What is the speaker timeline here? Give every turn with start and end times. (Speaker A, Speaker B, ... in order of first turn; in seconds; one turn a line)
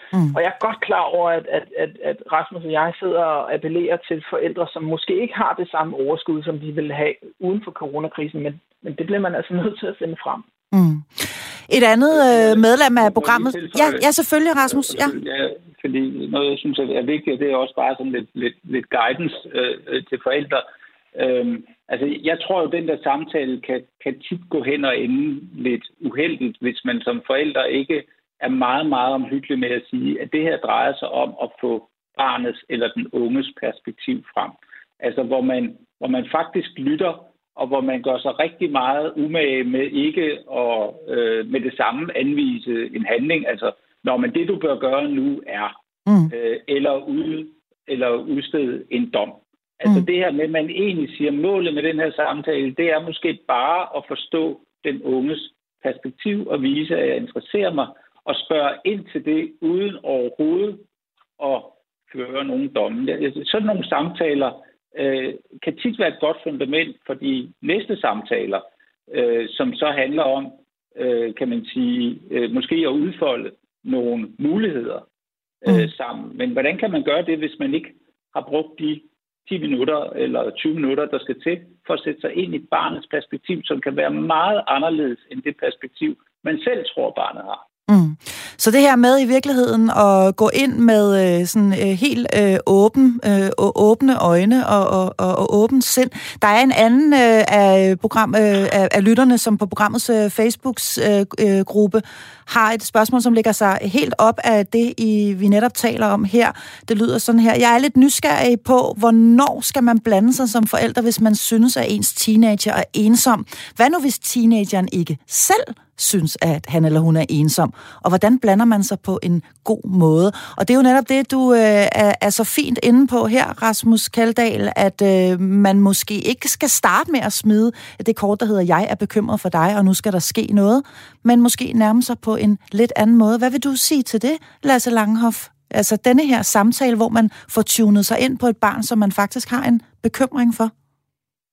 Speaker A: 0.3-10.4
Speaker B: 10.7-15.1
Speaker C: 12.1-14.1
Speaker C: 14.6-45.7
Speaker B: 46.1-46.3
Speaker C: 46.3-60.8
Speaker C: 61.4-75.0
Speaker C: 75.6-87.6
Speaker B: 87.9-140.7